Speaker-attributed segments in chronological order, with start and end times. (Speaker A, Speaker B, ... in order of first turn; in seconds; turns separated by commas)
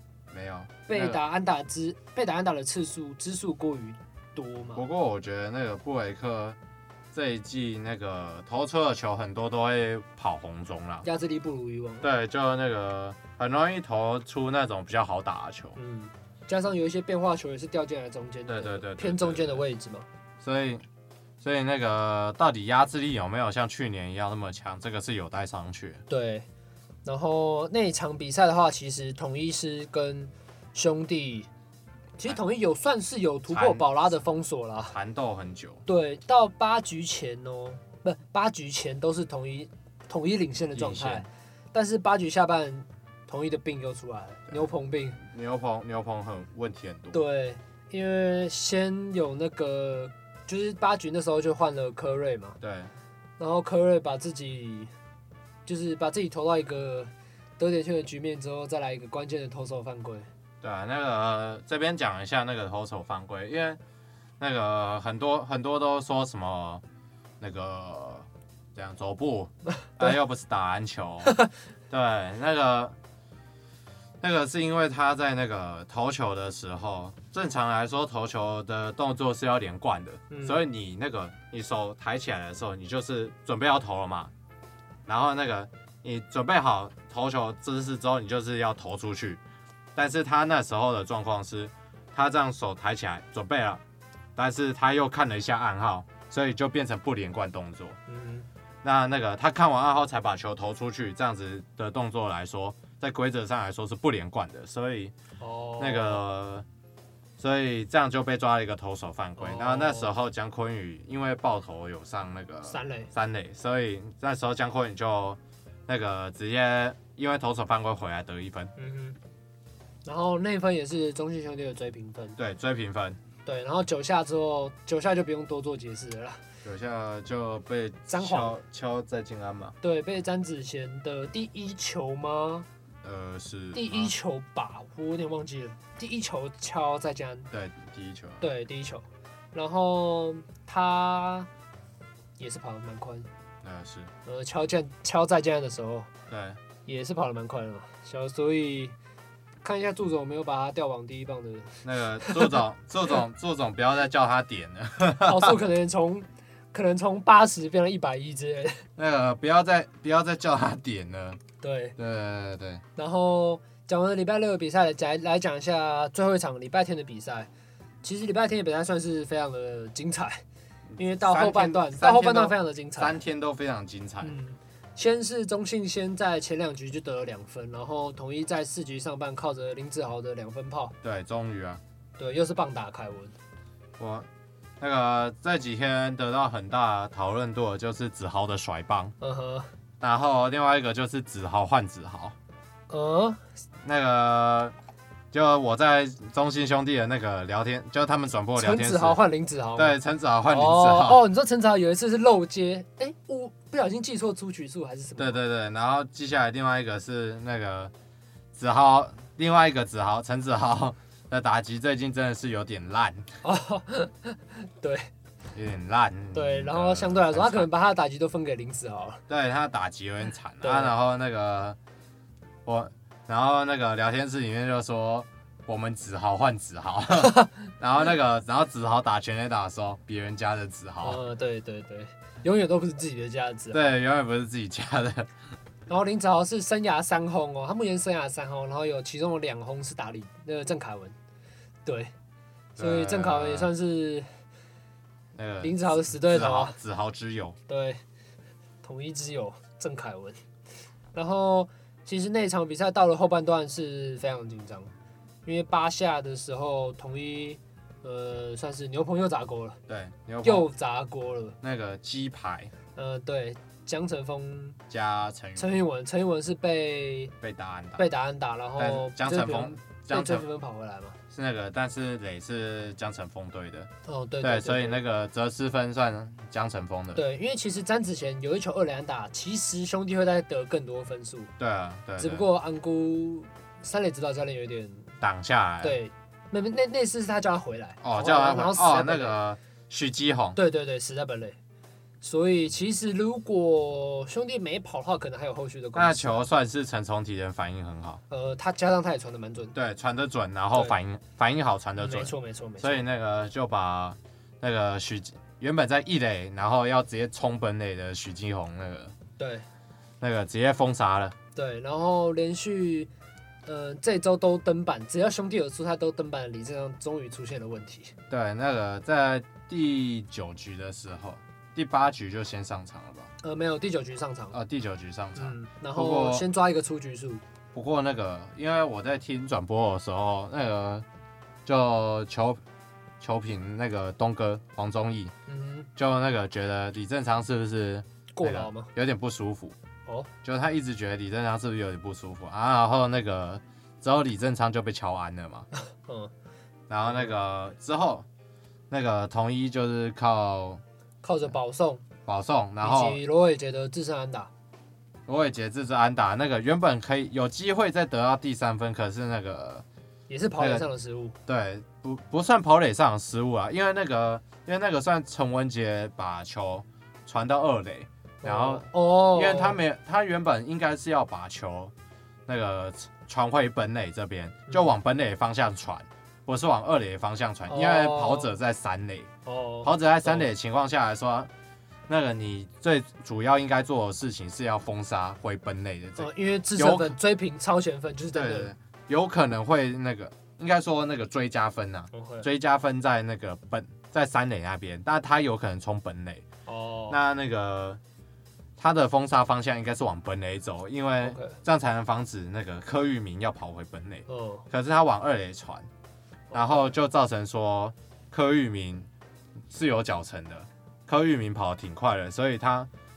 Speaker A: 0.3-1.2, Speaker B: 0.9-4.8, Speaker A: 4.8-6.6, Speaker A: 7.1-11.1, Speaker B: 11.0-12.1, Speaker A: 12.0-15.8, Speaker B: 15.8-20.1, Speaker A: 18.5-19.6, Speaker A: 20.4-20.8, Speaker A: 21.4-26.0, Speaker B: 26.1-26.5, Speaker B: 27.1-31.5, Speaker B: 32.2-35.0, Speaker A: 33.5-33.9, Speaker A: 34.9-35.8, Speaker B: 35.9-45.2, Speaker A: 40.8-41.3, Speaker A: 45.2-47.2, Speaker B: 47.1-52.6, Speaker A: 52.6-52.9, Speaker B: 53.4-54.9, Speaker B: 55.7-60.3, Speaker A: 60.6-63.8, Speaker A: 64.4-66.8, Speaker A: 67.4-71.4, Speaker A: 71.9-73.0, Speaker A: 74.2-84.3, Speaker B: 80.3-80.6, Speaker A: 85.1-89.4, Speaker A: 90.0-93.8, Speaker A: 94.4-98.0, Speaker B: 98.1-98.5, Speaker A: 98.8-105.1, Speaker B: 105.4-106.2, Speaker A: 105.8-106.7, Speaker A: 107.4-118.7, Speaker B: 109.4-110.1, Speaker B: 112.7-113.1, Speaker B: 118.8-119.2, Speaker B: 120.0-122.4, Speaker A: 122.4-123.2, Speaker B: 123.5-126.4, Speaker A: 126.6-129.8, Speaker B: 128.1-128.6, Speaker B: 129.8-132.7, Speaker A: 133.0-134.1, Speaker B: 133.7-137.5, Speaker A: 137.5-138.4, Speaker B: 138.4-141.5, Speaker B: 142.4-143.3, Speaker A: 143.6-144.1, Speaker B: 144.2-146.1, Speaker A: 146.3-146.6, Speaker B: 146.9-148.9, Speaker B: 149.6-152.6, Speaker A: 151.8-155.6, Speaker B: 155.2-158.8, Speaker A: 159.0-161.4, Speaker B: 161.6-162.0, Speaker A: 162.0-162.8, Speaker B: 163.0-167.5, Speaker B: 168.0-170.4, Speaker A: 171.0-174.3, Speaker B: 171.0-173.2, Speaker B: 174.2-180.9, Speaker A: 181.0-181.8, Speaker B: 182.2-183.3, Speaker A: 184.0-184.3, Speaker A: 184.8-189.1, Speaker B: 189.2-189.7, Speaker A: 190.0-192.3, Speaker B: 192.9-193.4, Speaker A: 193.8-194.8, Speaker A: 195.3-199.2, Speaker B: 198.6-200.0, Speaker A: 199.8-201.2, Speaker B: 200.5-205.4, Speaker A: 205.2-207.9, Speaker A: 208.5-213.3, Speaker B: 213.4-215.1, Speaker A: 215.5-217.7, Speaker B: 216.3-219.2, Speaker A: 219.3-221.8, Speaker B: 220.6-220.9, Speaker A: 222.7-231.2, Speaker B: 227.2-227.5, Speaker B: 231.0-233.8, Speaker A: 233.7-235.3, Speaker B: 235.9-241.2, Speaker B: 241.9-242.1, Speaker A: 242.8-243.7, Speaker B: 242.8-244.3, Speaker A: 245.3-247.6, Speaker B: 245.6-246.8, Speaker B: 247.7-248.0, Speaker B: 248.8-250.4, Speaker B: 251.1-254.9, Speaker B: 255.4-259.8, Speaker A: 259.9-260.7, Speaker B: 260.4-261.6, Speaker A: 261.6-262.7, Speaker B: 262.9-264.8, Speaker A: 264.9-265.8, Speaker B: 265.6-267.3, Speaker A: 267.4-268.1, Speaker B: 268.0-271.2, Speaker A: 268.8-270.4, Speaker A: 271.3-273.9, Speaker B: 274.1-275.0, Speaker A: 274.4-277.2, Speaker B: 277.1-281.5, Speaker A: 281.6-282.5, Speaker B: 282.2-285.1, Speaker A: 285.2-286.0, Speaker B: 285.8-289.4, Speaker A: 288.0-290.6, Speaker B: 290.6-291.6, Speaker B: 292.2-296.4, Speaker A: 295.9-298.2, Speaker B: 298.3-299.8, Speaker A: 299.7-309.1, Speaker B: 302.0-303.0, Speaker B: 309.4-309.7, Speaker A: 310.2-311.4, Speaker B: 311.6-313.1, Speaker B: 313.7-318.1, Speaker A: 318.3-323.3, Speaker B: 323.4-324.6, Speaker A: 324.5-326.5, Speaker B: 325.4-327.4, Speaker A: 327.7-331.1, Speaker A: 331.6-332.6, Speaker A: 333.2-335.3, Speaker B: 335.5-335.9, Speaker A: 336.0-339.8, Speaker B: 338.4-338.9, Speaker A: 340.4-345.7, Speaker B: 346.0-346.3, Speaker A: 346.9-348.3, Speaker B: 347.1-347.3, Speaker A: 348.9-350.8, Speaker B: 351.2-352.0, Speaker A: 352.3-353.2, Speaker B: 352.8-354.5, Speaker A: 355.3-359.9, Speaker B: 360.3-361.4, Speaker A: 360.6-360.9, Speaker A: 361.5-371.9, Speaker B: 368.4-369.8, Speaker A: 372.5-379.3, Speaker B: 377.7-378.5, Speaker B: 379.5-380.5, Speaker A: 379.8-381.5, Speaker A: 382.1-387.2, Speaker B: 386.2-388.7, Speaker A: 388.3-396.4, Speaker B: 392.1-392.5, Speaker B: 396.7-397.2, Speaker A: 397.1-398.0, Speaker A: 398.8-405.9, Speaker B: 401.2-401.6, Speaker B: 404.3-404.6, Speaker B: 406.5-406.9, Speaker A: 406.5-409.1, Speaker A: 409.7-412.9